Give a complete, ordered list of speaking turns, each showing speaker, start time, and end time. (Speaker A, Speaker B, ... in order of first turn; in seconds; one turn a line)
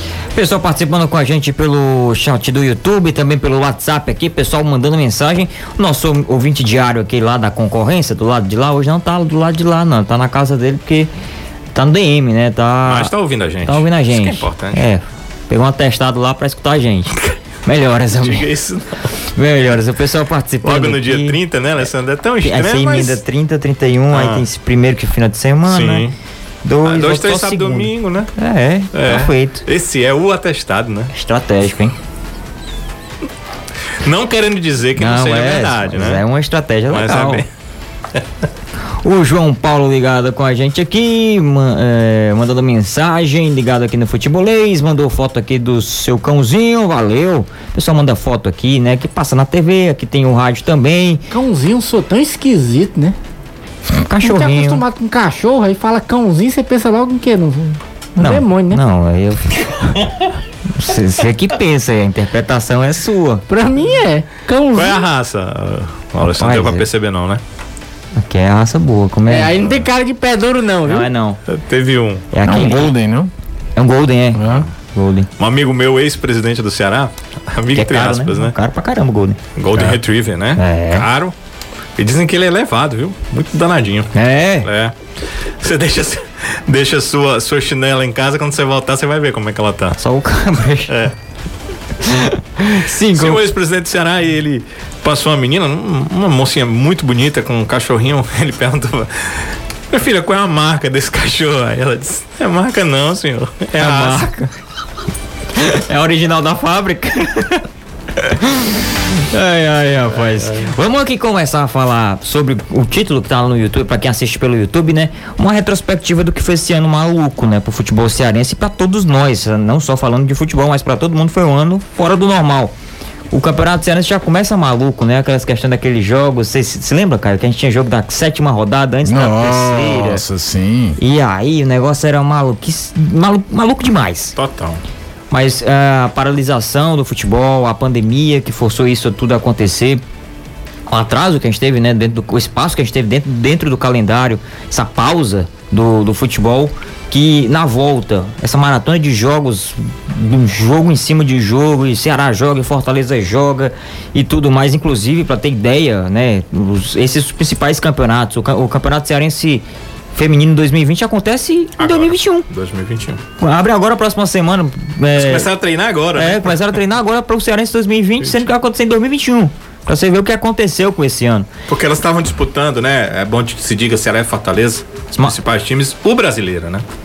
Speaker A: 0.3-11.1
Speaker A: 11.7-13.1
Speaker B: 12.8-14.8
Speaker A: 13.6-17.1
Speaker A: 17.6-18.5
Speaker B: 18.2-19.1
Speaker A: 19.3-21.4
Speaker B: 20.6-23.2
Speaker A: 22.4-26.1
Speaker B: 24.1-24.4
Speaker B: 25.6-26.1
Speaker A: 26.6-29.6
Speaker B: 26.8-28.3
Speaker B: 28.9-31.1
Speaker A: 31.1-31.9
Speaker B: 34.0-36.2
Speaker A: 35.0-37.4
Speaker B: 36.9-37.5
Speaker A: 39.0-51.2
Speaker C: 51.3-53.1
Speaker A: 53.9-54.8
Speaker C: 54.2-58.8
Speaker A: 58.2-60.0
Speaker A: 60.7-63.4
Speaker C: 63.5-65.0
Speaker B: 64.7-67.4
Speaker A: 66.2-66.8
Speaker A: 68.2-69.5
Speaker C: 69.3-71.1
Speaker A: 70.8-71.4
Speaker B: 71.5-72.2
Speaker A: 72.3-72.9
Speaker D: 72.4-73.3
Speaker A: 73.8-75.3
Speaker D: 74.3-74.7
Speaker B: 75.4-78.5
Speaker A: 77.7-79.4
Speaker B: 79.5-81.3
Speaker A: 80.6-81.0
Speaker B: 82.0-90.0
Speaker A: 84.1-84.7
Speaker A: 90.0-90.9
Speaker B: 90.9-91.1
Speaker A: 92.0-93.4
Speaker B: 93.1-104.3
Speaker A: 103.8-104.5
Speaker A: 105.5-107.6
Speaker A: 108.2-122.7
Speaker A: 123.3-130.2
Speaker D: 129.1-131.0
Speaker A: 131.0-134.3
Speaker B: 134.3-134.8
Speaker A: 135.3-140.0
Speaker A: 140.9-162.4
Speaker B: 161.8-163.2
Speaker A: 163.4-165.5
Speaker B: 165.1-166.7
Speaker A: 166.2-171.5
Speaker B: 171.7-176.8